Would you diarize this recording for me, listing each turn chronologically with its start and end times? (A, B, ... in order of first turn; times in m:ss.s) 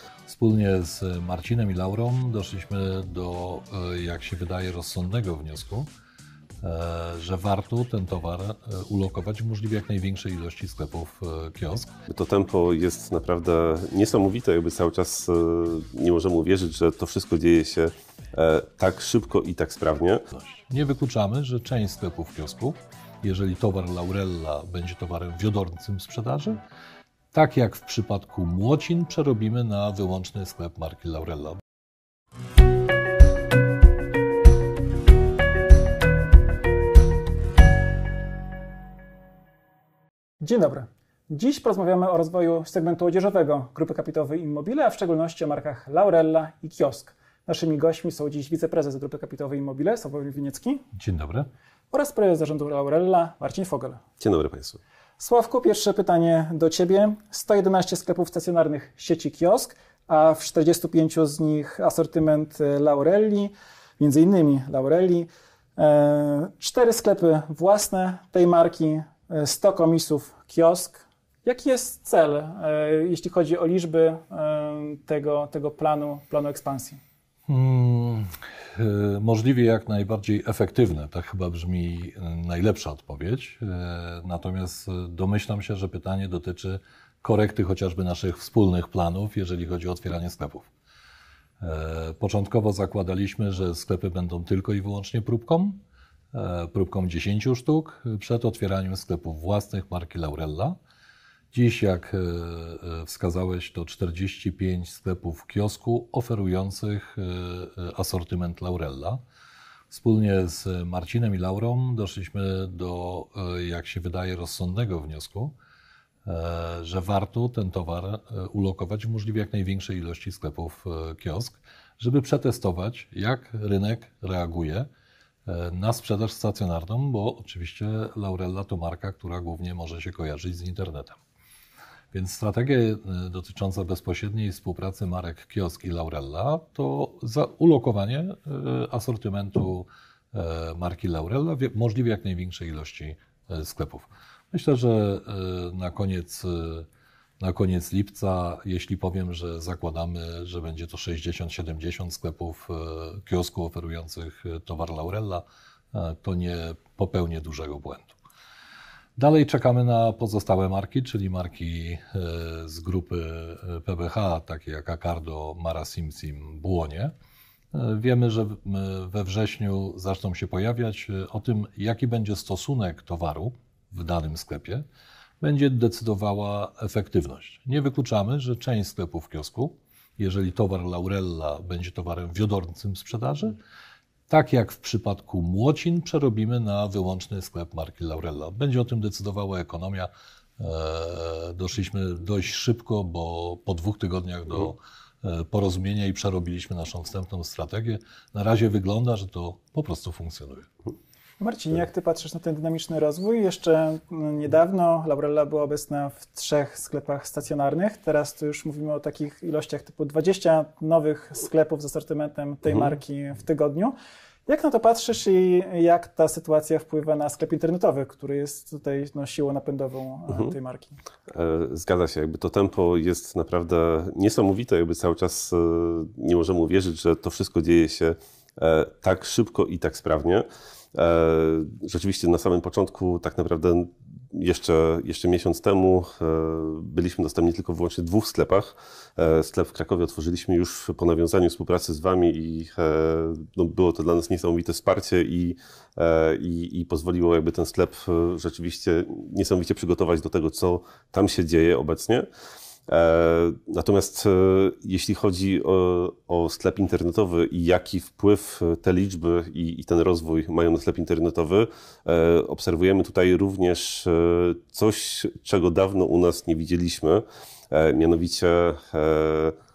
0:00.3-0:05.9 A
0:06.6-0:11.9 A
0:12.1-0:20.3 B
0:20.3-0:26.6 A
0:27.3-0:31.6 A
0:40.4-0:50.8 C
0:51.0-0:51.5 A
0:51.9-0:54.0 C
0:54.2-0:54.8 B
0:55.2-1:17.0 C
1:17.5-1:30.7 A
1:31.6-1:35.8 A
1:36.3-1:40.8 A
1:41.5-1:49.2 A
1:49.9-1:55.5 A
1:56.2-2:04.9 A
2:05.5-2:11.2 A
2:12.1-2:26.9 A
2:27.4-2:38.2 A
2:39.2-2:47.1 A
2:47.7-2:54.8 A
2:55.4-3:03.6 A
3:04.3-3:20.7 A
3:21.4-3:33.9 C
3:34.5-3:41.0 C
3:41.3-4:12.3 B
4:12.9-4:29.6 B